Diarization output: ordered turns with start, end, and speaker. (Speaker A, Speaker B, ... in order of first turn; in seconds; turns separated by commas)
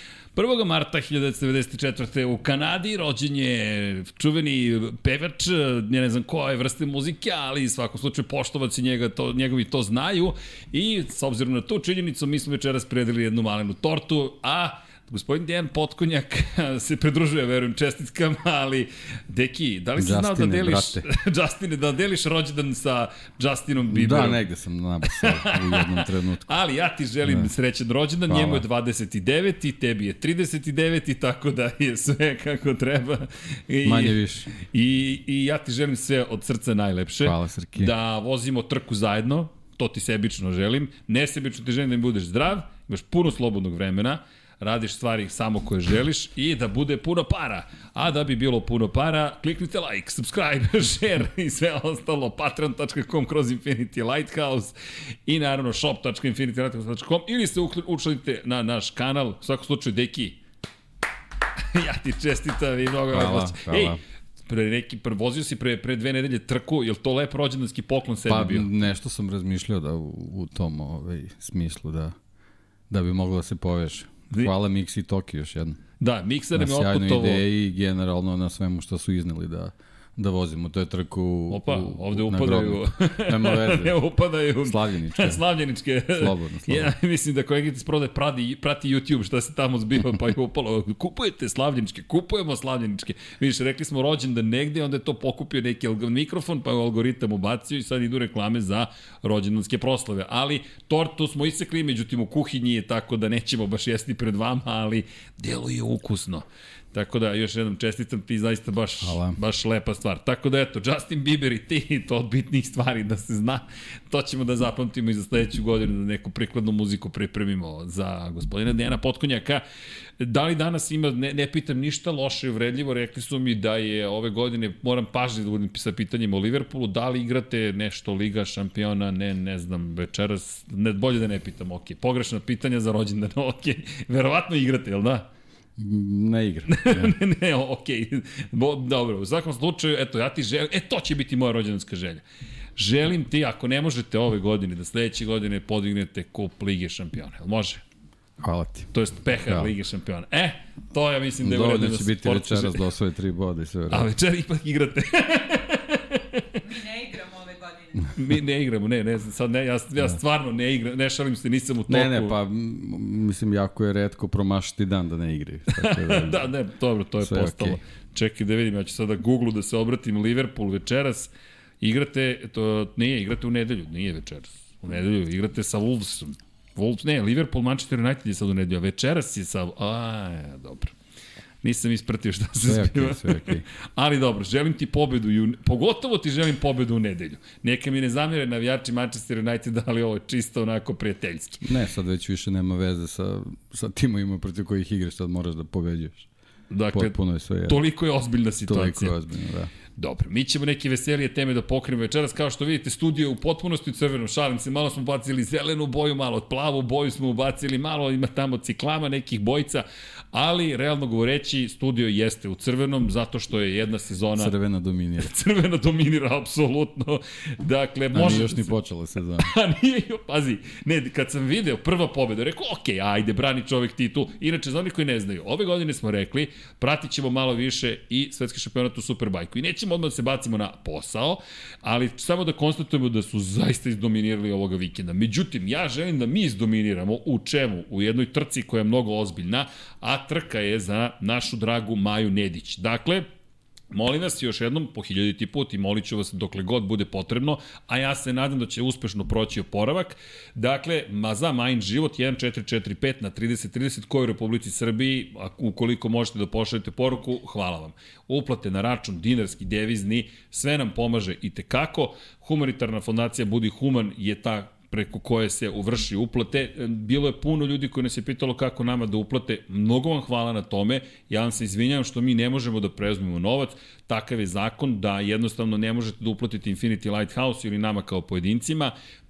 Speaker A: 0.3-24.4, Speaker B: 20.0-21.1, Speaker B: 23.9-26.5, Speaker A: 25.1-60.4, Speaker B: 27.3-27.5, Speaker B: 28.3-28.6, Speaker B: 33.8-34.5, Speaker B: 37.2-37.9, Speaker A: 61.7-68.7, Speaker B: 63.1-64.0, Speaker B: 68.2-72.2, Speaker B: 72.9-75.8, Speaker A: 76.0-77.4, Speaker B: 76.5-84.0, Speaker A: 81.5-119.6, Speaker B: 84.6-85.4, Speaker B: 86.2-86.9, Speaker B: 109.0-109.4, Speaker A: 120.2-135.3, Speaker B: 135.8-137.1, Speaker A: 136.7-142.2, Speaker A: 142.8-147.8, Speaker B: 148.4-148.9, Speaker A: 148.9-152.9, Speaker B: 149.4-149.7, Speaker B: 151.4-154.1, Speaker A: 153.9-157.2, Speaker A: 158.1-162.3, Speaker B: 161.9-166.5, Speaker A: 165.7-181.0, Speaker B: 167.2-167.8, Speaker A: 181.6-191.7, Speaker B: 182.6-183.7, Speaker B: 191.6-196.3, Speaker A: 196.7-199.2, Speaker B: 196.9-197.8, Speaker B: 198.7-199.7, Speaker A: 200.0-214.5, Speaker B: 214.3-215.3, Speaker A: 215.2-218.8, Speaker B: 218.1-219.5, Speaker A: 219.4-243.3, Speaker A: 243.9-278.9